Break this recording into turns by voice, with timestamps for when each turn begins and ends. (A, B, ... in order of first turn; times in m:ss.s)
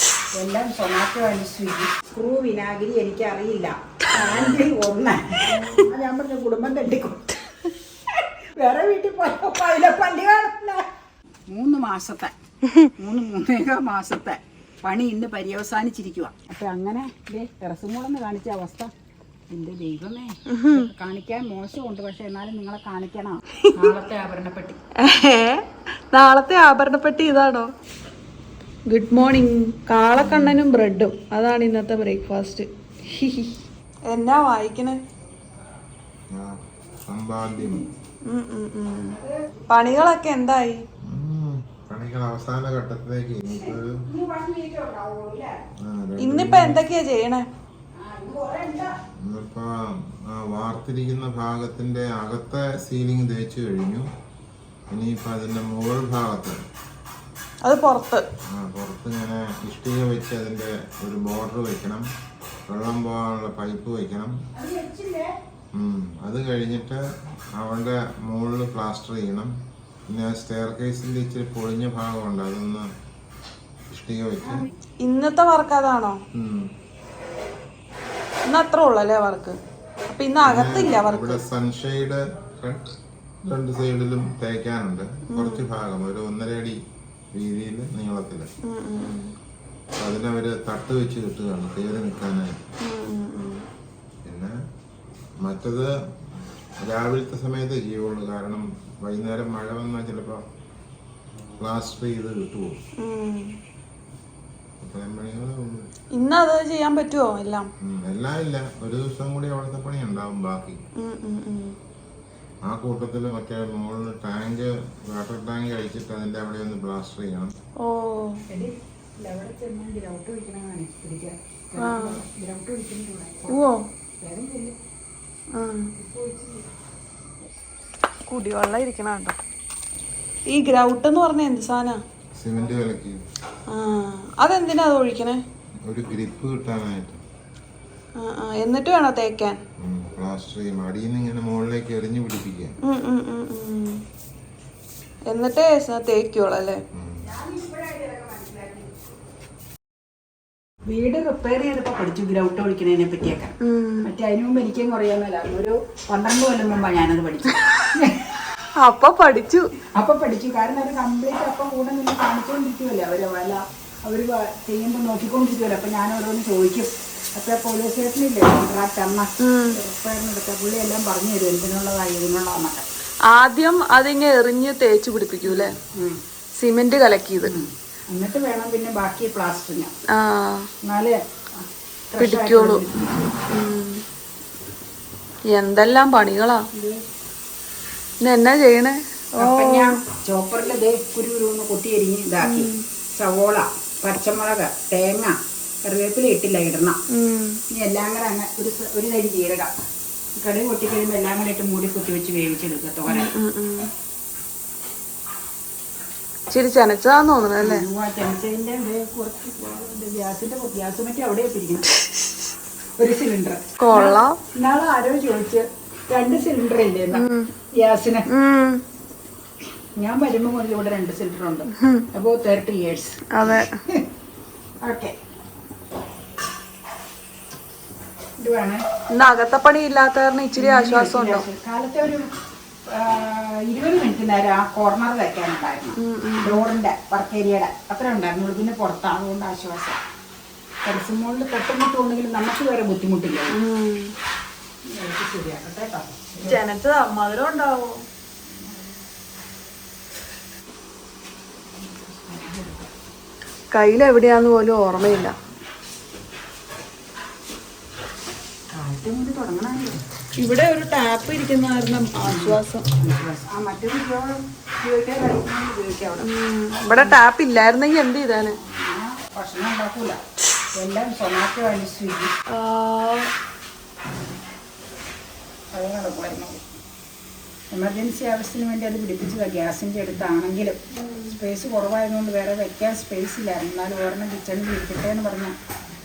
0:00.4-0:07.4 A
0:04.1-0:04.7 B
0:05.4-0:05.9 B
0:08.1-0:10.8 A
0:11.5-0:12.3 A
0:13.0-0:18.9 A
0:19.5-0:24.8 A
0:20.5-0:20.9 C
0:23.6-0:23.9 C
0:25.0-0:27.7 C
0:28.9-0:32.7 C
0:30.2-0:30.5 B
0:33.2-0:33.5 C
0:34.1-0:35.0 C
0:36.3-0:37.8 B
0:38.2-0:39.2 C
0:39.7-0:40.8 C
0:41.0-0:44.0 B
0:43.6-0:45.6 A
0:45.8-0:46.8 B
0:46.2-0:47.4 C
0:48.0-0:48.9 A
0:49.2-0:54.1 B
0:54.9-0:56.6 B
0:57.6-0:58.2 C
0:58.5-1:02.0 B
1:02.7-1:04.4 B
1:04.5-1:05.3 A
1:05.7-1:09.5 B
1:10.1-1:12.9 B
1:13.9-1:14.6 B
1:14.4-1:14.7 A
1:15.0-1:16.2 C
1:16.3-1:16.7 B
1:18.5-1:19.6 C
1:20.1-1:21.4 C
1:20.4-1:22.9 B
1:23.4-1:26.8 B
1:25.3-1:25.6 C
1:27.3-1:28.5 B
1:28.6-1:29.3 C
1:30.0-1:32.6 B
1:32.8-1:33.6 C
1:34.2-1:34.6 B
1:35.4-1:35.9 B
1:36.8-1:40.4 B
1:41.6-1:42.8 B
1:43.0-1:43.6 C
1:44.8-1:45.8 B
1:46.1-1:47.7 C
1:47.8-1:50.8 B
1:51.0-1:51.8 C
1:52.6-1:57.5 B
1:57.8-1:58.4 C
1:58.5-2:04.8 A
2:01.8-2:02.2 C
2:03.5-2:03.8 C
2:05.5-2:05.9 C
2:06.0-2:06.7 A
2:08.3-2:09.4 C
2:10.5-2:12.0 C
2:12.4-2:13.2 B
2:13.7-2:15.4 C
2:15.9-2:17.2 B
2:18.2-2:19.6 C
2:19.8-2:22.7 B
2:22.8-2:24.0 C
2:25.3-2:26.8 C
2:26.9-2:27.2 B
2:27.2-2:29.0 A
2:30.9-2:38.3 A
2:33.6-2:34.1 C
2:38.8-2:39.7 C
2:39.9-2:52.8 A
2:49.4-2:49.8 C
2:53.3-2:55.7 C
2:55.5-2:56.2 A
2:56.6-2:57.5 C
2:57.4-2:59.9 A
3:00.1-3:00.7 C
3:00.8-3:03.4 A
3:02.2-3:02.8 C
3:03.5-3:04.0 C
3:05.5-3:06.7 C
3:06.7-3:07.0 A
3:08.2-3:10.0 C
3:09.4-3:17.0 A
3:12.4-3:12.8 C
3:17.1-3:17.6 C
3:17.7-3:19.7 A
3:20.4-3:23.3 A
3:23.1-3:23.9 C
3:26.5-3:27.8 C
3:27.6-3:31.9 A
3:33.0-3:38.3 A
3:33.8-3:34.4 C
3:37.1-3:37.5 C
3:38.3-3:38.8 C
3:40.0-3:44.0 A
3:41.7-3:42.0 C
3:43.3-3:43.7 C
3:44.8-3:45.1 A
3:48.4-3:48.8 A
3:49.1-3:51.4 C
3:50.6-3:52.3 A
3:52.9-4:00.0 A
3:56.0-3:56.7 C
4:00.8-4:03.6 A
4:03.5-4:04.1 C
4:04.9-4:06.6 A
4:06.4-4:08.0 C
4:08.5-4:09.0 A
4:11.8-4:12.9 A
4:13.7-4:15.3 C
4:18.7-4:20.0 A
4:20.4-4:22.9 C
4:22.2-4:26.3 A
4:26.2-4:28.6 C
4:28.6-4:30.2 A
4:30.8-4:32.3 A
4:32.5-4:33.3 C
4:35.7-4:36.6 A
4:37.7-4:40.8 A
4:40.9-4:41.4 C
4:41.4-4:45.5 A